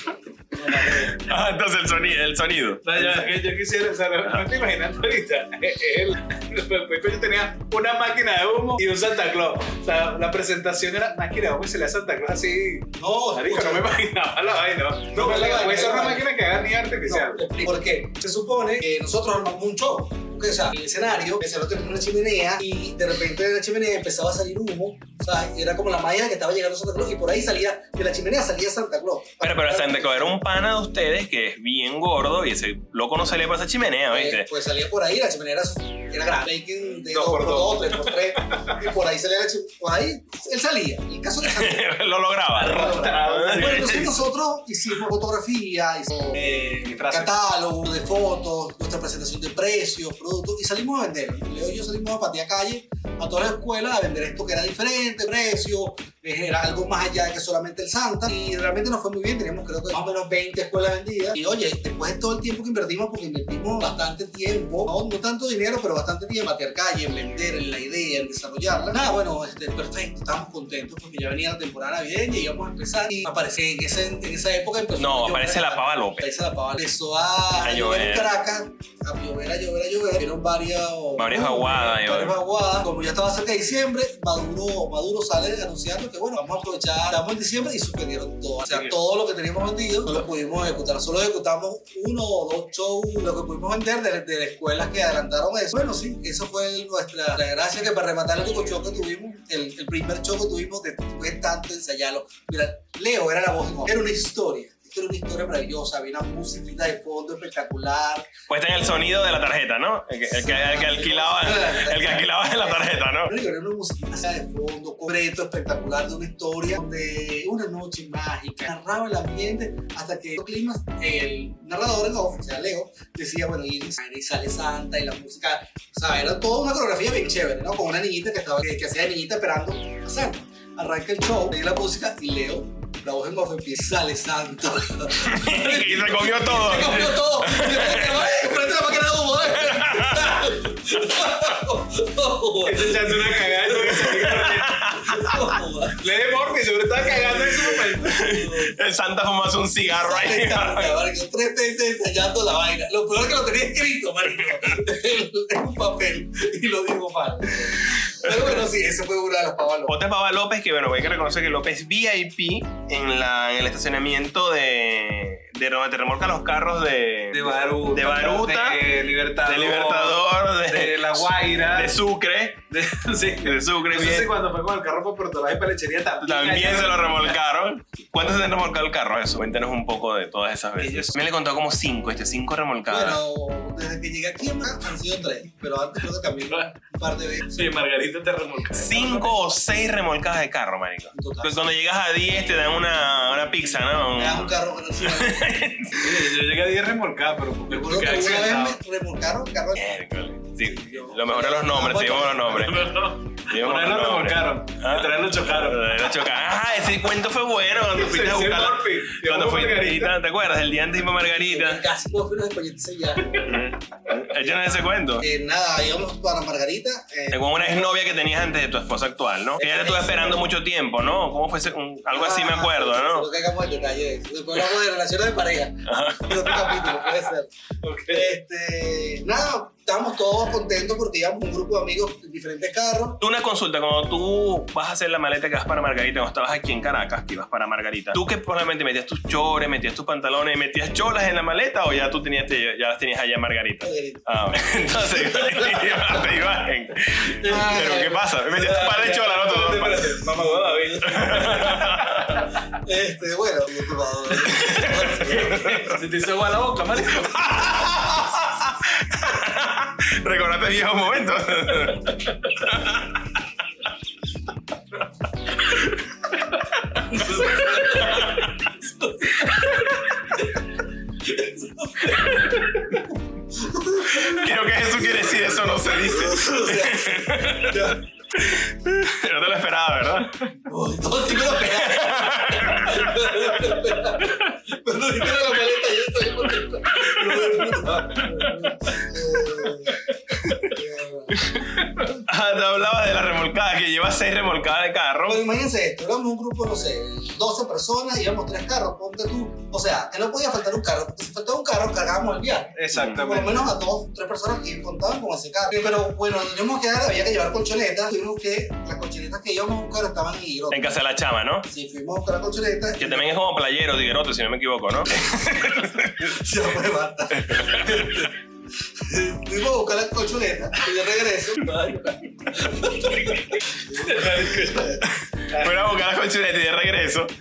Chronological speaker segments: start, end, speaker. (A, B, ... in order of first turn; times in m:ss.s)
0:00.5-0:01.2 A
0:00.7-0:03.3 B
0:02.8-0:17.4 C
0:13.0-0:13.9 A
0:15.1-0:16.3 A
0:17.0-0:30.4 A
0:29.4-0:34.5 B
0:34.1-0:41.8 A
0:37.0-0:38.8 C
0:41.4-0:44.1 B
0:42.5-0:44.1 C
0:42.6-1:48.3 A
0:46.3-0:47.3 C
1:15.0-1:16.3 B
1:17.6-1:18.3 B
1:21.2-1:22.4 B
1:48.5-1:53.3 B
1:50.3-2:26.1 A
2:15.2-2:18.5 B
2:19.7-2:20.5 B
2:22.6-2:24.8 C
2:23.9-2:25.5 B
2:26.0-2:28.2 C
2:27.0-2:27.7 A
2:27.8-2:30.9 B
2:28.2-2:28.8 A
2:29.8-2:40.0 A
2:37.8-2:38.6 B
2:39.9-2:48.8 B
2:47.3-2:52.0 C
2:49.4-2:52.6 B
2:52.7-2:57.4 C
2:53.4-2:54.3 B
2:56.2-3:03.2 B
3:00.8-3:01.2 C
3:02.9-3:07.8 A
3:07.5-3:09.4 C
3:08.7-3:16.2 B
3:11.1-3:11.6 A
3:14.1-3:15.5 A
3:16.0-3:18.8 C
3:17.7-3:19.8 A
3:19.8-3:22.9 B
3:20.6-3:22.8 A
3:22.5-3:26.2 C
3:23.5-3:31.8 B
3:27.8-3:30.2 C
3:31.3-3:38.1 A
3:33.4-3:35.2 B
3:37.3-3:43.3 B
3:39.6-3:40.5 A
3:42.1-3:47.5 A
3:45.8-3:46.6 B
3:46.7-3:47.0 C
3:47.8-3:48.3 C
3:48.1-3:53.2 A
3:53.2-4:10.3 B
4:03.8-4:04.2 A
4:05.1-4:06.2 A
4:07.3-4:08.2 A
4:08.5-4:12.5 C
4:10.4-4:11.8 A
4:11.0-4:12.4 B
4:12.8-4:15.8 A
4:14.4-4:16.0 B
4:15.2-4:17.5 C
4:17.0-4:23.3 B
4:25.6-4:28.5 B
4:27.1-4:29.9 A
4:29.4-4:30.1 B
4:31.2-4:38.0 A
4:34.0-4:40.5 B
4:40.6-4:50.0 A
4:41.6-4:43.6 B
4:47.0-4:47.4 B
4:48.2-4:48.7 B
4:50.4-4:50.7 B
4:50.6-4:51.4 A
4:51.3-4:55.4 B
4:55.2-5:11.0 A
5:02.7-5:03.7 C
5:02.9-5:03.2 B
5:10.7-5:11.7 B
5:11.7-5:13.3 A
5:13.0-5:16.4 B
5:16.2-5:18.3 A
5:17.3-5:18.3 B
5:19.0-5:25.0 A
5:23.9-5:25.9 C
5:25.0-5:27.3 B